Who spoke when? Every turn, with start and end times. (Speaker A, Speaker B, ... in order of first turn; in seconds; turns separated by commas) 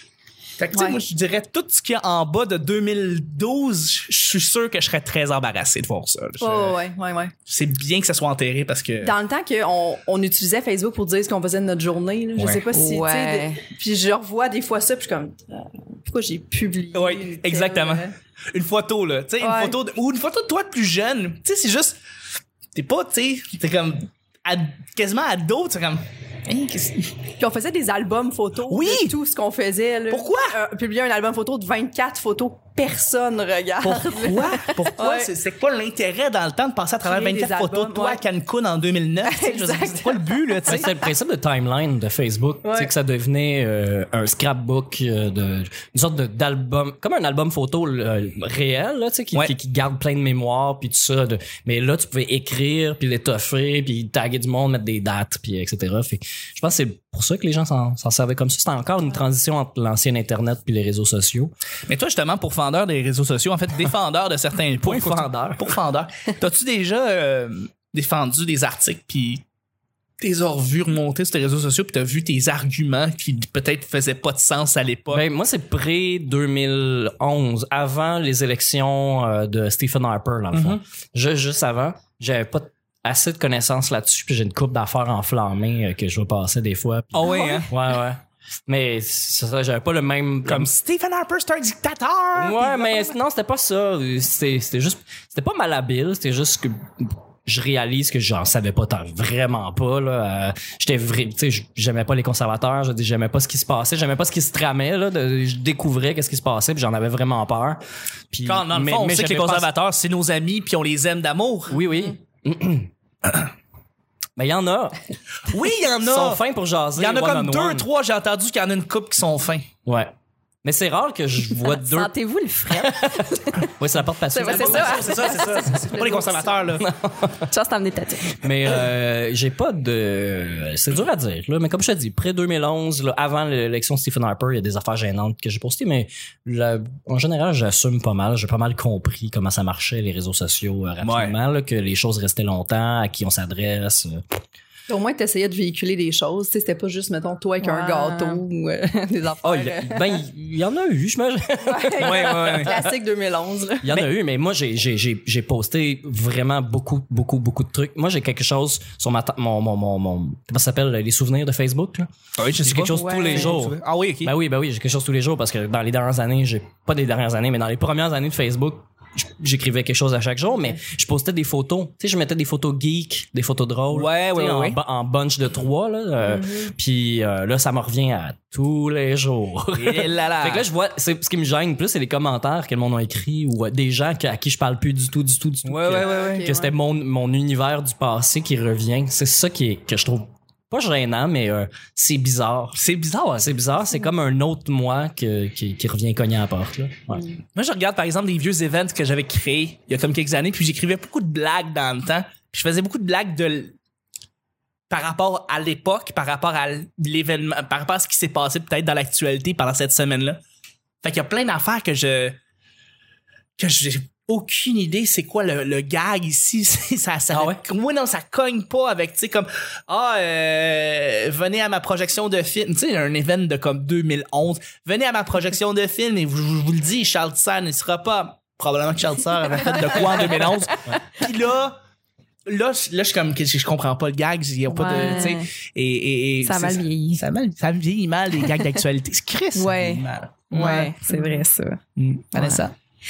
Speaker A: 0.6-6.8, Speaker B: 0.7-1.0, Speaker B: 6.4-7.3, Speaker A: 7.5-9.1, Speaker B: 9.0-18.1, Speaker A: 12.4-12.6, Speaker C: 12.7-13.6, Speaker A: 16.9-22.0, Speaker B: 19.4-19.8, Speaker A: 22.8-27.1, Speaker B: 27.4-35.3, Speaker A: 28.7-29.1, Speaker A: 30.1-30.6, Speaker A: 33.8-40.9, Speaker B: 37.0-38.2, Speaker B: 39.2-40.8, Speaker D: 40.7-61.5, Speaker B: 42.6-42.9, Speaker A: 61.9-69.4, Speaker D: 64.8-65.8, Speaker A: 70.2-75.2, Speaker D: 75.1-90.7, Speaker A: 80.5-80.8, Speaker A: 87.1-87.7, Speaker A: 90.5-93.0, Speaker D: 92.4-109.7, Speaker A: 108.5-111.8, Speaker D: 111.7-112.9, Speaker D: 114.4-115.0, Speaker A: 115.5-116.4, Speaker D: 116.0-117.9, Speaker A: 117.0-119.7, Speaker D: 119.9-120.1, Speaker D: 120.6-122.1, Speaker C: 121.7-123.7, Speaker D: 122.7-126.0, Speaker C: 124.3-126.4, Speaker A: 124.5-126.9, Speaker B: 126.0-126.5, Speaker D: 126.8-127.5, Speaker C: 127.5-128.4, Speaker D: 128.3-144.2, Speaker A: 141.0-141.3, Speaker B: 144.9-150.2, Speaker C: 147.6-148.4, Speaker D: 149.4-152.9, Speaker B: 151.7-154.0, Speaker A: 152.0-152.8, Speaker D: 153.8-162.1, Speaker A: 162.4-164.3, Speaker D: 162.6-192.8, Speaker C: 162.9-163.5, Speaker A: 173.9-174.8, Speaker B: 176.3-176.7, Speaker A: 179.8-180.7, Speaker A: 185.7-186.5, Speaker B: 186.0-186.7, Speaker A: 192.8-193.5, Speaker D: 193.4-197.2, Speaker A: 197.6-203.8, Speaker A: 204.9-210.4, Speaker A: 211.0-212.4, Speaker A: 213.6-231.8, Speaker D: 217.3-217.6, Speaker A: 232.5-240.9, Speaker C: 234.7-235.4, Speaker B: 234.8-235.2, Speaker C: 236.4-237.2, Speaker C: 239.6-241.8, Speaker A: 242.0-242.7, Speaker C: 242.3-242.6